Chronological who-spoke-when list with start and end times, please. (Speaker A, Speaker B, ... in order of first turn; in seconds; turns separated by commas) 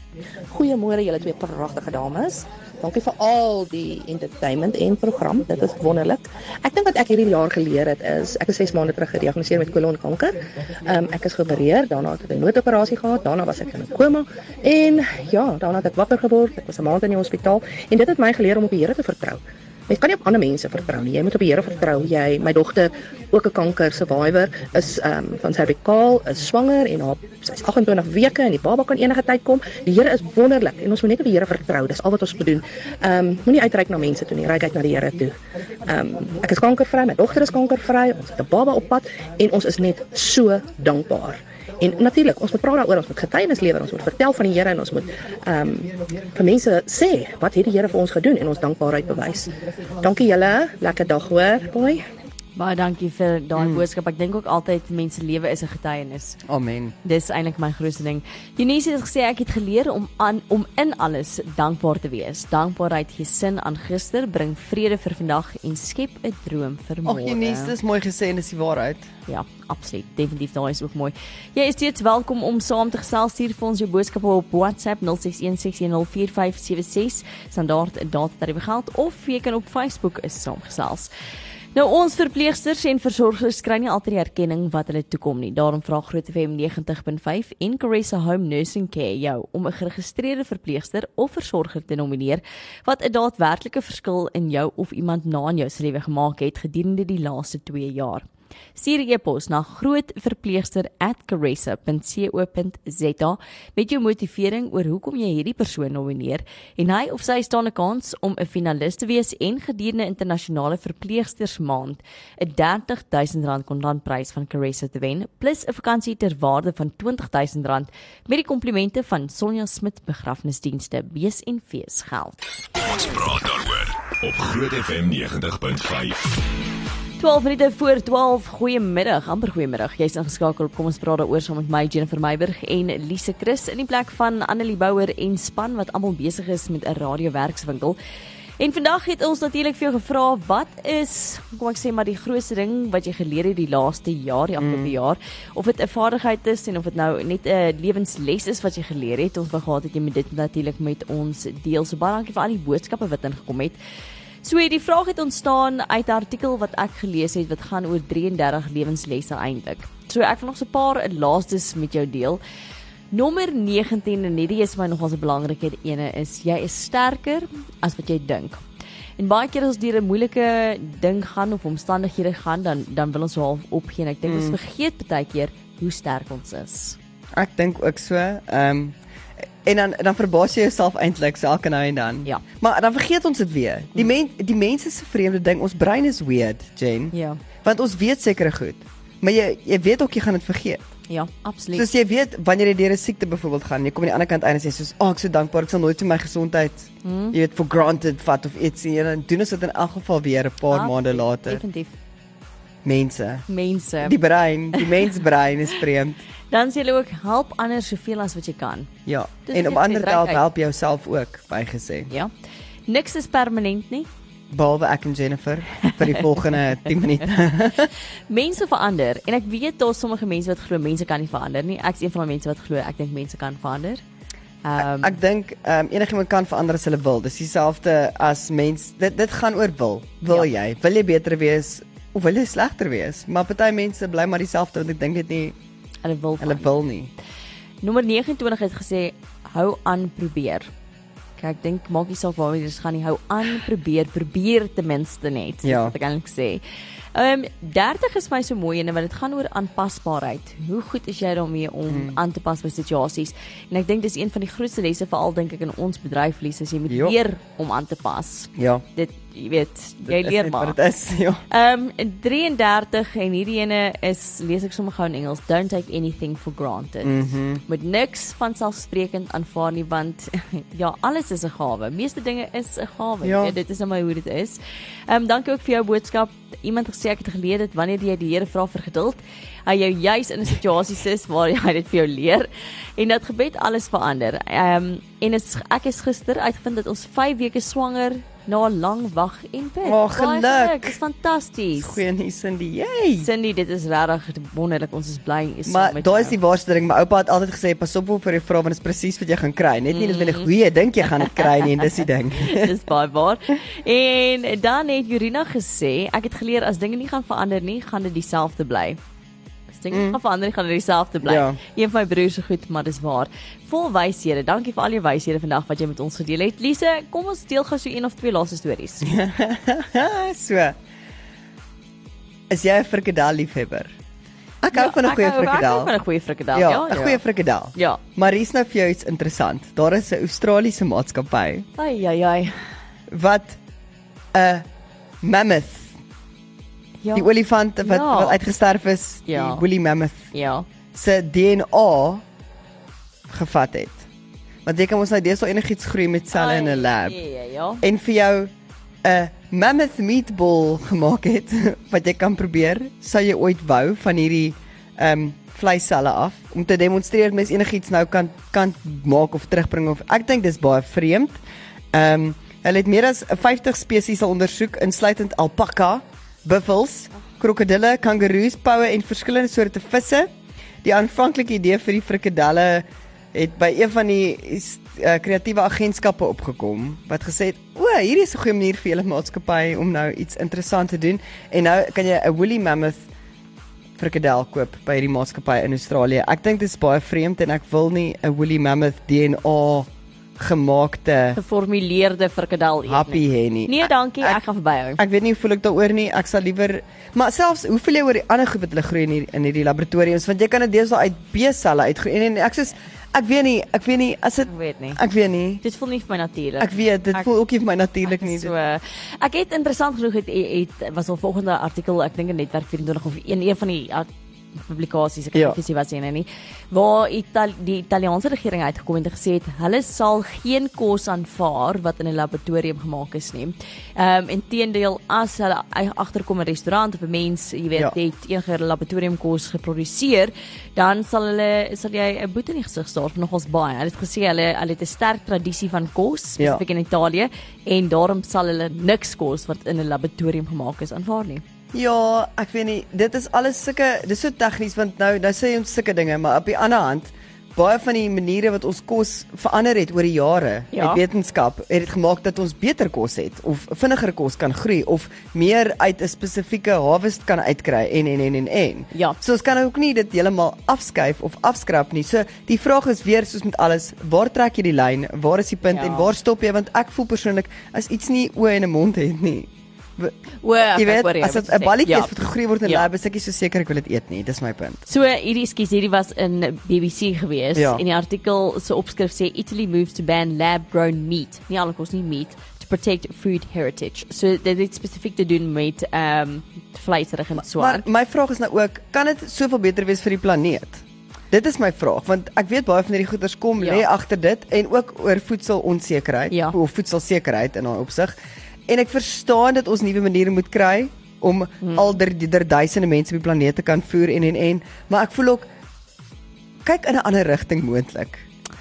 Speaker A: 0.5-52.0, Speaker B: 52.5-56.4, Speaker C: 53.6-53.8, Speaker C: 56.5-56.9, Speaker B: 57.0-67.7, Speaker C: 67.0-69.1, Speaker B: 69.3-81.1, Speaker B: 81.7-98.2, Speaker B: 98.8-122.4, Speaker D: 122.7-126.4, Speaker B: 127.2-137.9, Speaker B: 138.6-153.8, Speaker C: 144.6-144.9, Speaker B: 154.4-162.4, Speaker B: 163.1-168.6, Speaker B: 169.2-177.0, Speaker C: 174.2-174.6, Speaker C: 177.3-190.8, Speaker B: 187.1-187.4, Speaker B: 191.1-191.8, Speaker C: 191.7-201.6, Speaker B: 197.0-197.3, Speaker B: 200.7-201.9, Speaker C: 202.8-203.4, Speaker B: 203.5-204.2, Speaker C: 204.0-206.2, Speaker B: 206.5-208.9, Speaker C: 209.1-212.1, Speaker B: 209.5-210.4, Speaker B: 212.9-214.1, Speaker C: 214.5-217.9, Speaker B: 218.3-224.0, Speaker B: 224.6-225.1, Speaker C: 224.8-235.6, Speaker B: 236.0-236.7, Speaker C: 236.4-237.1, Speaker B: 237.8-240.7, Speaker B: 241.4-246.6, Speaker C: 245.6-245.9, Speaker B: 247.1-260.8, Speaker C: 251.9-252.2, Speaker C: 256.9-257.1, Speaker C: 258.6-258.8, Speaker C: 260.1-261.4, Speaker B: 261.5-292.0, Speaker C: 267.0-267.6, Speaker C: 273.2-273.5, Speaker C: 289.8-291.0, Speaker C: 291.8-293.3, Speaker B: 293.2-296.4, Speaker C: 295.6-302.7, Speaker B: 299.9-300.5, Speaker B: 301.0-301.8, Speaker B: 302.4-309.0, Speaker B: 309.7-319.1, Speaker C: 309.9-310.2, Speaker C: 311.2-311.6, Speaker C: 319.0-320.8, Speaker C: 322.5-323.9, Speaker C: 324.6-325.9, Speaker B: 324.7-327.2, Speaker C: 326.5-331.6, Speaker B: 327.7-328.0, Speaker B: 331.8-332.6, Speaker C: 333.1-333.6, Speaker C: 334.3-334.6, Speaker C: 335.2-335.9, Speaker B: 337.0-337.3, Speaker C: 337.1-340.3, Speaker B: 337.8-338.4, Speaker B: 339.3-339.6, Speaker B: 340.3-340.6, Speaker C: 340.9-342.2, Speaker C: 343.3-344.1, Speaker C: 344.6-347.2, Speaker B: 346.3-347.8, Speaker C: 347.8-348.5, Speaker C: 349.0-361.4, Speaker C: 361.9-383.1, Speaker C: 384.0-389.9, Speaker C: 390.4-391.4, Speaker B: 391.3-395.0, Speaker C: 392.9-394.4, Speaker C: 395.0-405.6, Speaker B: 404.5-405.0, Speaker B: 405.6-407.3, Speaker C: 406.6-408.5, Speaker B: 408.1-414.1, Speaker B: 414.6-441.4, Speaker C: 441.7-470.1, Speaker B: 450.7-451.0, Speaker B: 465.6-466.1, Speaker B: 470.4-472.1, Speaker C: 470.7-474.8, Speaker B: 474.9-487.9, Speaker C: 477.5-477.8, Speaker C: 487.4-498.1, Speaker B: 493.6-493.8, Speaker B: 496.3-496.6, Speaker C: 498.7-505.5, Speaker B: 501.6-501.9, Speaker C: 506.6-508.2